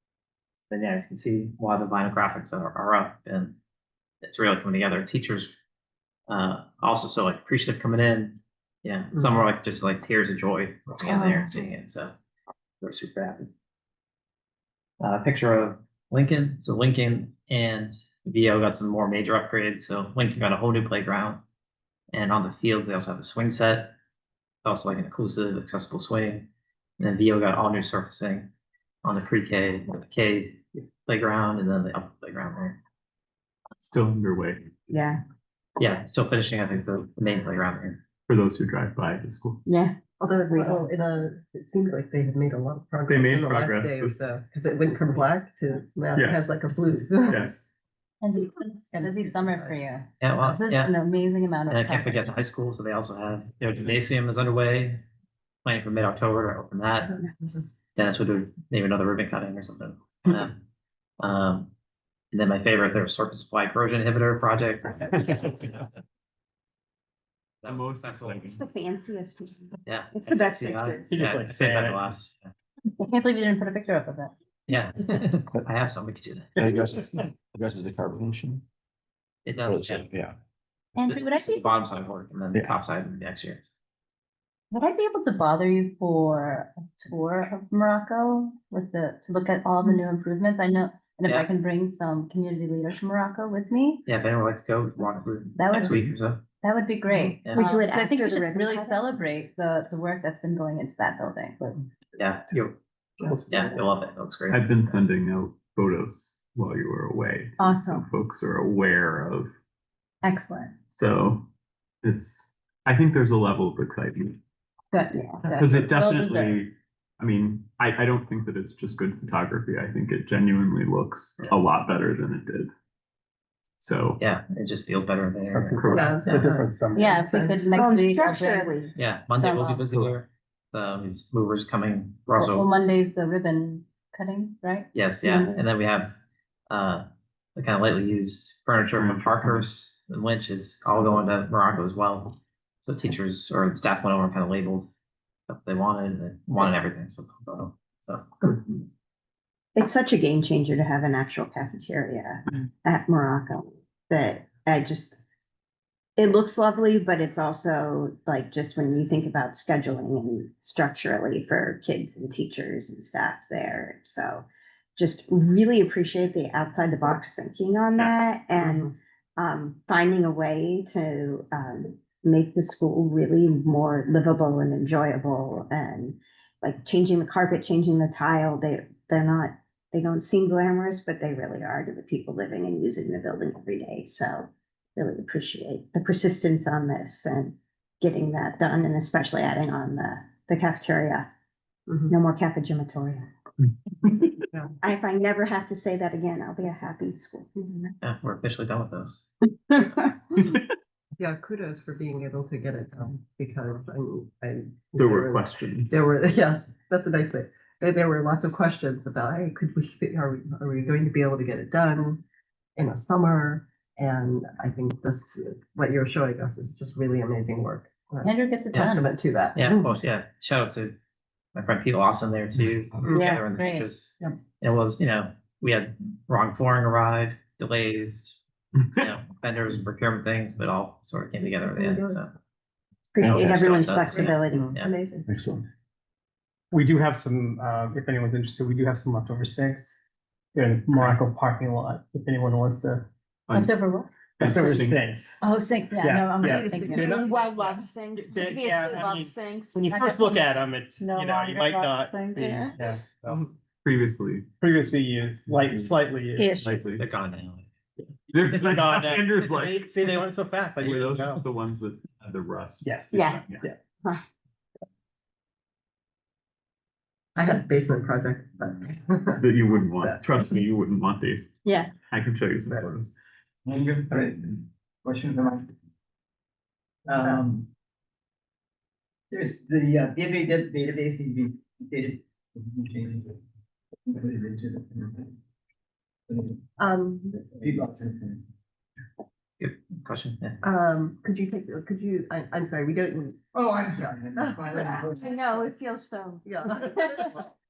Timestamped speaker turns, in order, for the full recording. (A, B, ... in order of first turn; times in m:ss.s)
0:00.7-0:03.6 A
0:04.2-0:05.5 A
0:06.3-0:12.1 A
0:11.2-0:11.5 B
0:12.8-0:13.5 A
0:15.0-0:21.4 A
0:22.1-0:24.0 A
0:24.6-0:26.5 A
0:27.0-0:28.5 A
0:29.0-0:32.8 A
0:33.8-0:34.7 C
0:34.9-0:35.2 B
0:35.8-0:38.0 A
0:38.3-0:39.6 C
0:39.6-0:40.0 B
0:40.2-0:47.5 D
0:40.5-0:40.8 B
0:43.1-0:44.4 C
0:46.1-0:46.6 C
0:47.2-0:47.6 C
0:48.2-0:52.3 E
0:48.9-0:49.8 D
0:50.2-0:50.9 A
0:51.7-0:55.0 A
0:55.6-0:57.2 A
0:57.2-0:57.7 B
0:57.8-1:00.6 A
1:01.2-1:01.7 A
1:02.3-1:04.9 A
1:07.6-1:08.4 A
1:07.6-1:08.6 C
1:08.5-1:11.1 B
1:09.9-1:12.5 A
1:11.1-1:12.1 F
1:13.0-1:14.3 E
1:14.7-1:16.5 A
1:16.6-1:18.6 G
1:19.4-1:20.0 A
1:19.6-1:20.4 G
1:21.0-1:21.7 E
1:21.0-1:23.7 A
1:24.7-1:34.0 E
1:34.0-1:36.4 A
1:35.6-1:41.6 E
1:37.2-1:39.0 B
1:42.2-1:42.8 A
1:43.5-1:45.0 A
1:44.5-1:49.5 C
1:47.6-1:48.0 E
1:50.2-1:50.7 E
1:50.9-1:51.5 C
1:52.0-1:54.4 C
1:54.9-1:56.6 E
1:55.1-1:55.4 B
1:55.6-2:02.7 C
2:03.8-2:04.2 C
2:04.2-2:06.4 A
2:05.5-2:07.1 F
2:05.8-2:06.2 C
2:05.8-2:07.7 D
2:06.9-2:09.8 E
2:07.7-2:08.9 B
2:08.9-2:12.6 A
2:12.4-2:14.9 E
2:14.9-2:16.2 A
2:15.2-2:15.6 B
2:16.7-2:24.9 A
2:18.9-2:19.6 C
2:25.5-2:28.7 A
2:29.7-2:35.2 B
2:36.2-3:11.3 B
3:11.9-3:12.1 D
3:12.1-3:13.3 B
3:14.0-3:17.9 B
3:18.0-3:19.2 A
3:21.2-3:32.2 D
3:24.9-3:26.0 C
3:32.8-3:40.0 D
3:38.2-3:39.1 E
3:39.6-3:41.0 A
3:41.5-3:48.4 A
3:43.1-3:43.4 B
3:43.6-3:43.9 E
3:49.0-3:52.3 A
3:51.4-3:52.2 D
3:53.1-3:54.8 B
3:53.2-3:53.5 C
3:53.4-3:54.9 A
3:54.1-3:55.3 D
3:55.3-3:55.6 G
3:56.7-4:00.0 F
4:00.5-4:03.1 F
4:03.5-4:03.7 C
4:03.5-4:04.1 E
4:04.4-4:05.0 C
4:04.4-4:05.4 F
4:05.4-4:07.2 E
4:06.0-4:13.4 F
4:06.3-4:09.9 B
4:10.0-4:10.3 E
4:11.0-4:12.8 B
4:13.3-4:14.5 C
4:14.6-4:16.6 F
4:16.4-4:16.6 B
4:16.5-4:17.0 C
4:17.0-4:17.7 A
4:18.3-4:19.8 C
4:18.3-4:21.5 F
4:20.8-4:23.6 C
4:22.8-4:23.7 F
4:23.1-4:23.4 B
4:27.4-4:29.4 D
4:29.4-4:31.6 C
4:30.0-4:30.3 D
4:31.6-4:31.9 B
4:32.1-4:33.1 C
4:33.6-4:35.7 H
4:37.1-4:37.7 H
4:39.3-4:43.4 H
4:44.1-4:45.4 H
4:46.3-4:46.6 H
4:46.8-4:47.4 D
4:47.5-4:48.4 H
4:49.6-4:50.6 A
4:50.6-4:53.4 D
4:53.5-4:55.2 H
4:54.3-4:55.5 D
4:54.9-4:56.4 B
4:56.4-4:57.4 D